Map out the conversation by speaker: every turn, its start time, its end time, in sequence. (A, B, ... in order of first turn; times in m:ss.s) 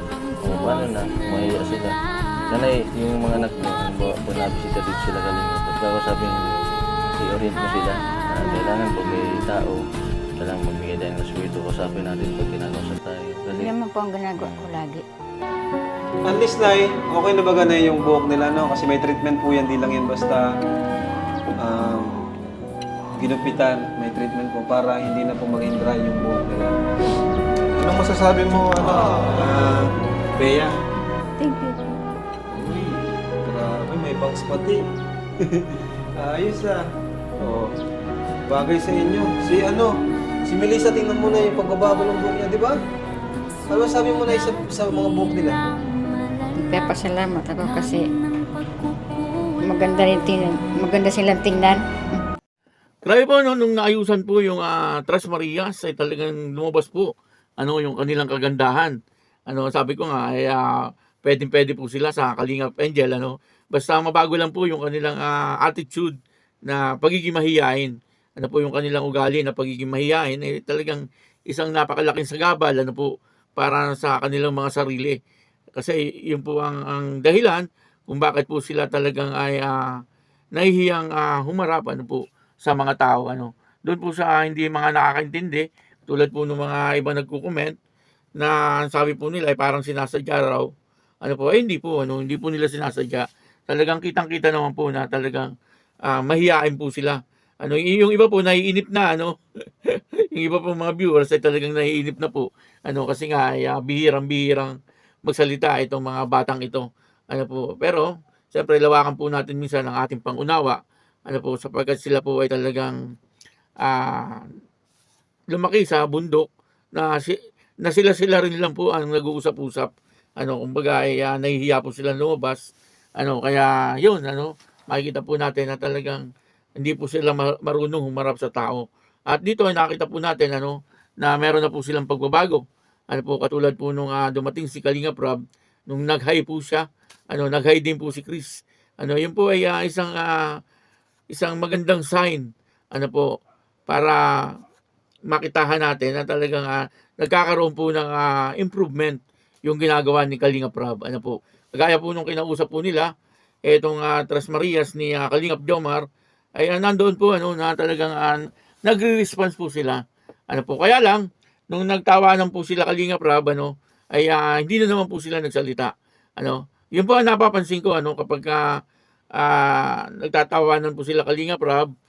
0:00.4-0:01.9 A
0:02.5-0:06.6 A
0:07.2-0:09.8 A
0:10.4-0:13.7 A
0:13.5-0:15.0 B
0:16.2-0:20.5 C
0:21.6-0:22.1 C
0:23.2-0:26.8 C
0:27.7-0:30.7 C
0:31.4-0:31.8 B
0:32.5-0:34.8 C
0:35.5-0:36.8 C
0:37.4-0:37.7 C
0:38.5-0:39.9 C
0:40.4-0:42.8 C
0:43.7-0:45.6 C
0:46.6-0:48.1 B
0:49.6-0:51.8 B
0:53.0-0:59.0 D
0:59.5-1:15.2 D
1:15.8-1:20.0 D
1:20.5-1:27.7 D
1:28.4-1:30.7 D
1:31.2-1:35.5 D
1:36.1-1:53.0 D
1:53.8-1:54.4 D
1:55.5-2:06.2 D
2:06.8-2:20.4 D
2:21.3-2:23.3 D
2:23.9-2:24.5 D
2:25.3-2:33.1 D
2:33.7-2:36.0 D
2:36.6-2:48.6 D
2:49.4-2:51.9 D